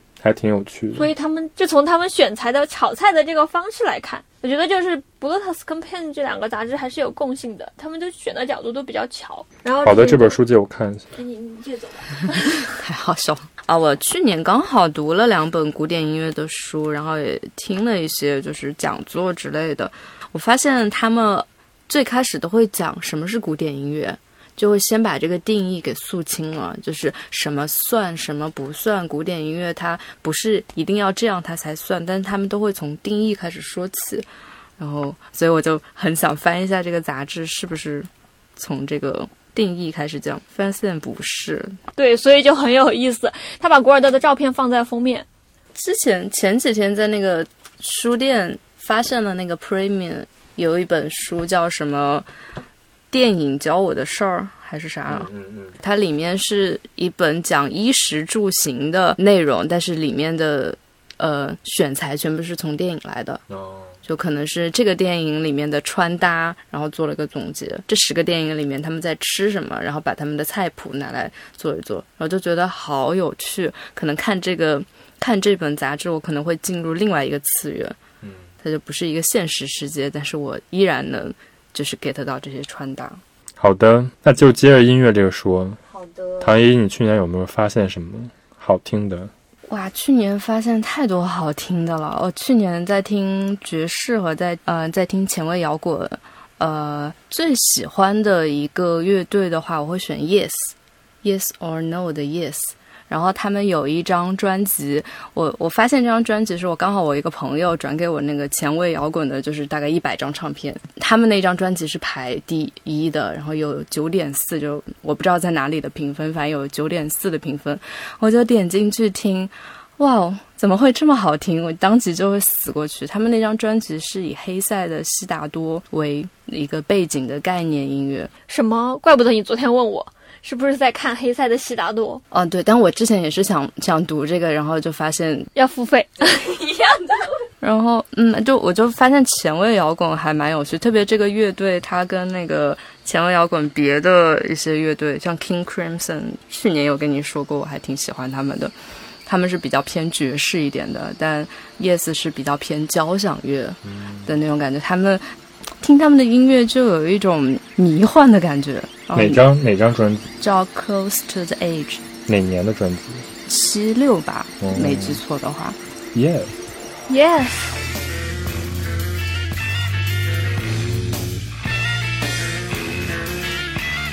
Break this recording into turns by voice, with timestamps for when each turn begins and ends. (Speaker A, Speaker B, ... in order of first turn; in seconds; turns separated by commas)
Speaker A: 0.2-1.1, Speaker B: 0.9-10.4, Speaker A: 9.8-11.1, Speaker B: 11.1-12.7, Speaker C: 12.5-41.8, Speaker B: 42.0-45.3, Speaker C: 45.8-52.3, Speaker C: 53.1-63.4, Speaker A: 55.1-55.8, Speaker A: 63.5-64.0, Speaker C: 64.0-78.0, Speaker A: 78.2-78.5, Speaker C: 78.6-83.2, Speaker A: 83.6-85.8, Speaker C: 86.0-86.5, Speaker A: 86.4-89.3, Speaker C: 89.7-128.3, Speaker B: 128.5-132.2, Speaker C: 132.3-135.5, Speaker B: 135.6-137.3, Speaker C: 137.6-148.7, Speaker C: 149.2-155.3, Speaker A: 153.8-154.3, Speaker C: 155.8-159.4, Speaker A: 159.1-160.3, Speaker C: 160.4-162.1, Speaker A: 162.3-163.3, Speaker C: 163.5-165.8, Speaker A: 164.6-165.2, Speaker A: 166.1-166.5, Speaker B: 167.1-167.8